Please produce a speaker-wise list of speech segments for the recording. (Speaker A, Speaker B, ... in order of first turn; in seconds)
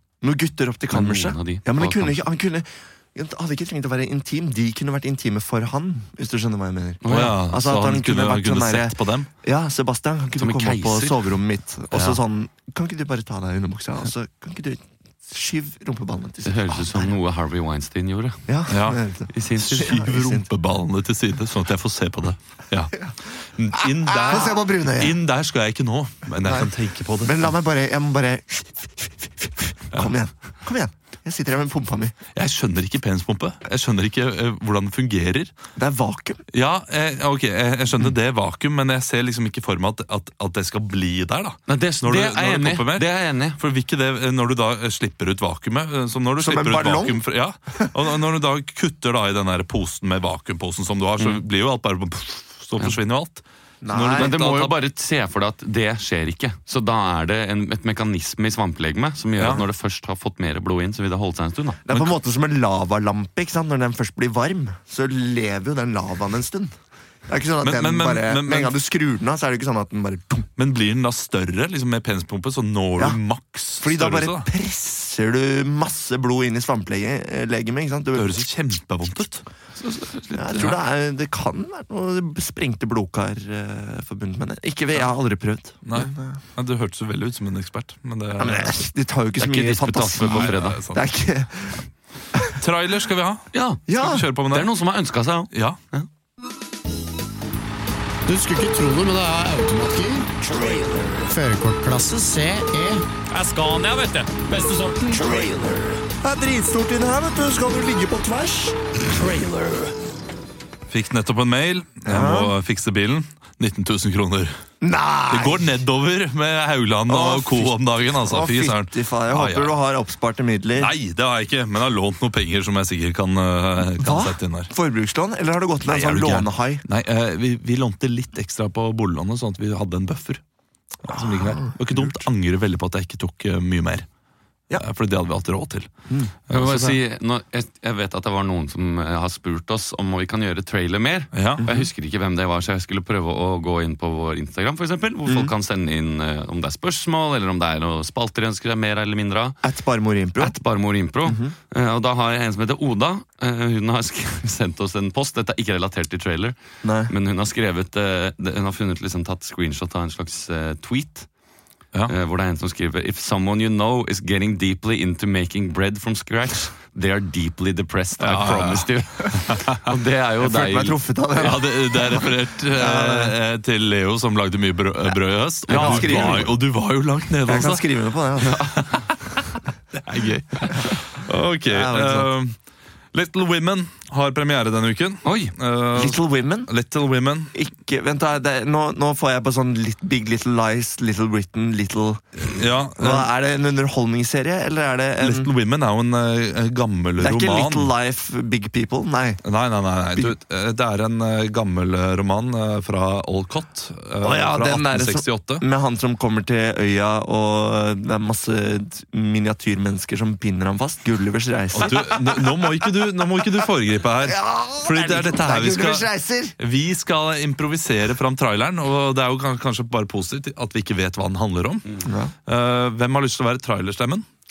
Speaker A: 0.2-17.2, 18.5-20.5, 23.8-25.2, 26.4-26.7, 27.2-32.1, 35.8-36.4, 46.4-47.2, 53.8-54.3, 61.8-66.7, 67.3-70.5, 73.8-78.5, 80.3-86.4, 88.4-91.8, 93.9-94.2, 100.4-101.3, 105.1-108.8, 112.0-112.5, 114.8-115.8, 117.1-120.9, 124.0-126.8, 131.1-132.2, 141.6-141.9, 145.2-145.5, 149.6-150.6, 151.2-151.5, 156.8-157.1, 170.4-173.3, 175.7-176.5, 177.4-178.8, 181.7-182.3, 185.9-186.7, 187.5-195.5, 197.2-199.4, 204.2-216.5, 222.0-222.3
Speaker B: 0.9-2.2, 7.0-7.4, 10.4-11.2, 16.4-18.4, 19.3-20.0, 41.7-43.6, 54.1-61.8, 79.8-80.8, 89.4-90.8, 93.5-93.8, 94.5-96.1, 103.3-105.3, 136.5-149.6, 150.4-156.6, 157.1-161.3, 162.1-171.0, 175.7-176.5, 185.2-185.5
Speaker C: 7.0-9.3, 11.9-12.2, 18.7-19.0, 19.6-27.5, 32.3-35.5, 36.5-43.0, 43.6-54.7, 59.4-59.6, 67.6-68.7, 70.6-74.5, 78.1-79.4, 85.8-88.8, 90.1-91.1, 92.5-94.7, 95.5-95.8, 110.9-114.5, 115.3-119.8, 120.8-124.7, 125.8-130.4, 131.0-134.1, 134.8-135.9, 136.5-137.0, 141.3-141.7, 168.2-169.9, 171.4-177.8, 178.5-182.6, 183.1-187.5, 192.4-193.3, 195.2-197.9, 199.4-205.6, 211.7-216.1, 216.6-221.9, 222.4-224.2
Speaker D: 98.3-100.4, 101.2-103.0, 105.2-105.5, 109.1-109.9